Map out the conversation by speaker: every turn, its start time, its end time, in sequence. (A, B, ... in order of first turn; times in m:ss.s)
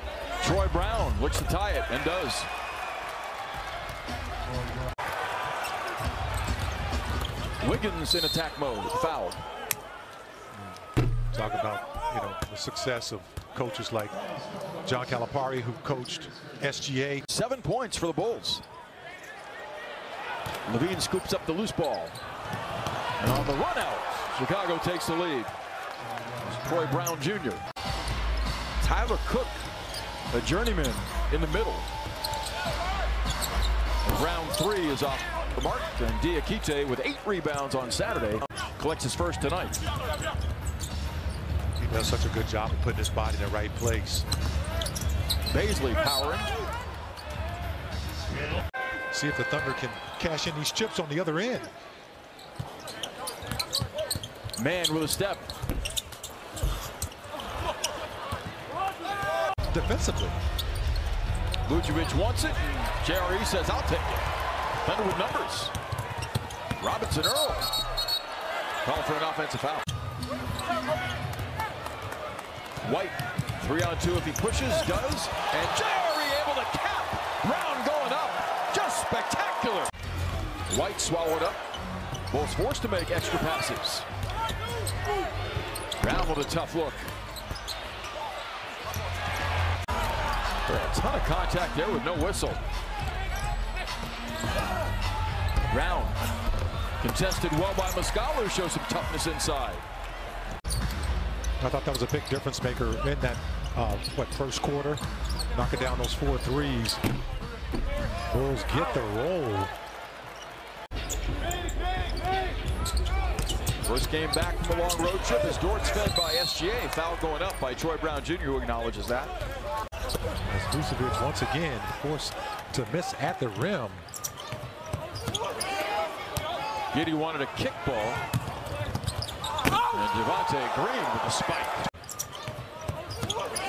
0:00.4-0:02.5 A
0:07.6-0:09.4 A
0:11.3-0:14.2 B
0:14.8-0:17.2 B
0:17.3-0:18.6 A
0:20.7-0:22.2 A
0:23.2-0:25.5 A
0:26.4-0:27.6 A
0:28.8-0:29.6 A
0:30.3-0:31.9 A
0:34.0-0:39.8 A
0:41.8-0:44.3 B
0:45.5-0:46.5 A
0:49.1-0:51.7 B
0:54.6-0:55.5 A
0:59.7-1:00.4 B
1:01.6-1:04.3 A
1:04.8-1:05.7 A
1:06.8-1:07.7 A
1:08.8-1:09.8 A
1:12.8-1:19.9 A
1:20.7-1:21.6 A
1:22.3-1:24.0 A
1:26.0-1:27.1 A
1:30.6-1:32.6 A
1:35.7-1:36.2 A
1:37.0-1:39.8 A
1:41.6-1:45.0 B
1:45.5-1:47.0 B
1:48.3-1:49.7 B
1:53.8-1:59.3 A
2:00.4-2:04.0 B
2:06.9-2:08.2 A
2:09.9-2:11.8 A